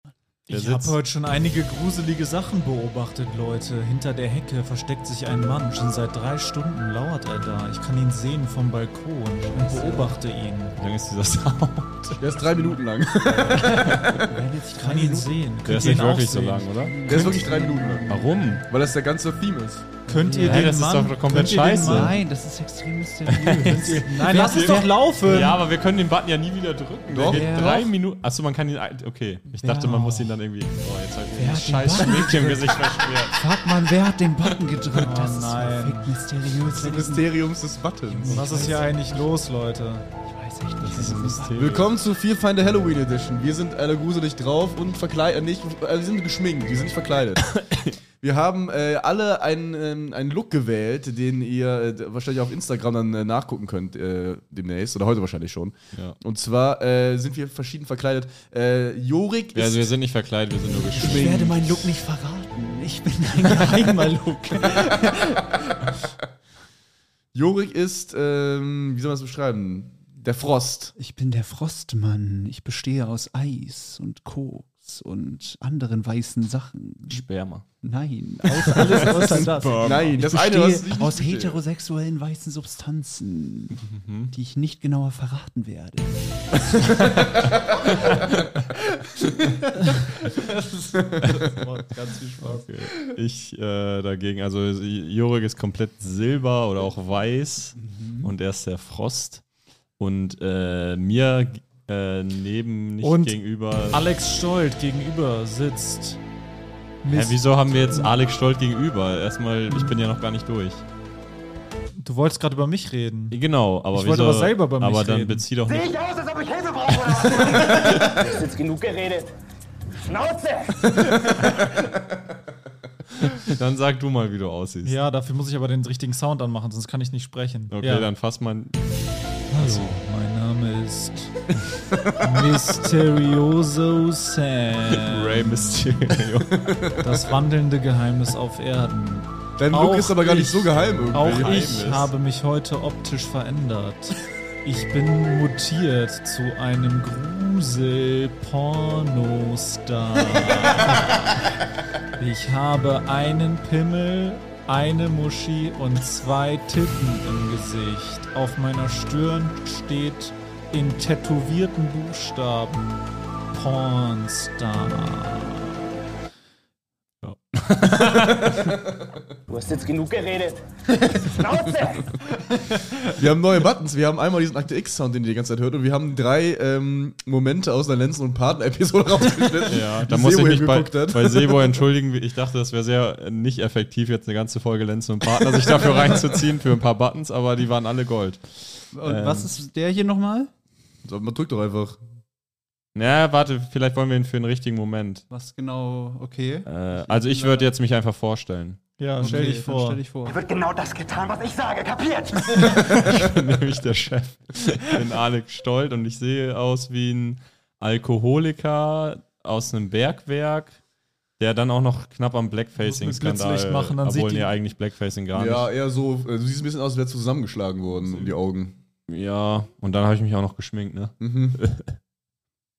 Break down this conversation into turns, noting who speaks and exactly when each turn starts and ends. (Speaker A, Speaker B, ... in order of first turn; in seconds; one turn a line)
Speaker A: 0.5-10.8
Speaker B: 0.5-0.9
Speaker C: 9.6-10.1
Speaker B: 10.8-12.2
Speaker D: 12.2-14.4
Speaker C: 13.4-15.4
Speaker B: 13.5-13.9
Speaker A: 14.7-17.0
Speaker B: 15.7-17.4
Speaker C: 16.8-18.6
Speaker D: 17.1-18.1
Speaker B: 18.1-18.6
Speaker D: 18.7-20.0
Speaker C: 20.1-20.8
Speaker A: 20.1-22.2
Speaker B: 20.4-22.2
Speaker C: 21.3-25.0
Speaker B: 23.3-33.6
Speaker A: 23.6-25.6
Speaker D: 27.1-27.7
Speaker C: 27.3-27.9
Speaker C: 29.6-30.4
Speaker C: 31.4-37.3
Speaker A: 35.0-36.2
Speaker D: 36.7-38.7
Speaker C: 38.1-39.2
Speaker A: 38.3-40.1
Speaker C: 40.3-41.8
Speaker B: 40.8-41.9
Speaker D: 41.6-47.5
Speaker B: 47.5-47.9
Speaker D: 48.2-59.9
Speaker B: 59.5-61.6
Speaker D: 60.7-61.7
Speaker C: 60.9-65.8
Speaker D: 67.3-70.9
Speaker C: 71.0-77.2
Speaker B: 77.1-77.7
Speaker C: 77.8-88.3
Speaker A: 78.7-80.0
Speaker B: 78.8-80.0
Speaker D: 79.8-81.6
Speaker B: 83.8-84.3
Speaker B: 86.9-87.3
Speaker B: 87.9-88.2
Speaker C: 89.0-92.7
Speaker B: 92.4-99.4
Speaker C: 97.8-98.3
Speaker B: 100.0-104.0
Speaker A: 103.0-103.4
Speaker A: 103.9-106.2
Speaker C: 107.0-108.1
Speaker B: 107.1-110.8
Speaker A: 112.0-113.4
Speaker B: 113.3-116.0
Speaker A: 113.9-115.5
Speaker E: 115.7-119.3
Speaker B: 116.9-118.4
Speaker E: 120.0-120.9
Speaker B: 123.2-125.0
Speaker A: 124.8-128.1
Speaker B: 127.7-128.8
Speaker A: 129.5-131.5
Speaker B: 129.5-129.9
Speaker A: 132.1-136.1
Speaker B: 134.9-136.7
Speaker D: 136.6-137.0
Speaker A: 137.0-151.4
Speaker D: 139.6-142.1
Speaker B: 141.1-141.9
Speaker A: 152.2-165.8
Speaker B: 167.2-168.8
Speaker D: 168.2-169.3
Speaker E: 169.5-170.6
Speaker E: 171.2-172.1
Speaker D: 173.1-181.8
Speaker B: 179.6-189.5
Speaker C: 188.9-190.5
Speaker D: 191.0-192.0
Speaker B: 192.9-195.2
Speaker C: 195.3-197.7
Speaker B: 196.7-199.3
Speaker A: 199.0-200.0
Speaker C: 199.2-200.4
Speaker E: 200.3-202.9
Speaker B: 202.6-210.8
Speaker B: 211.4-215.7
Speaker A: 212.8-214.5
Speaker D: 215.3-218.8
Speaker B: 219.1-221.9
Speaker D: 221.2-221.6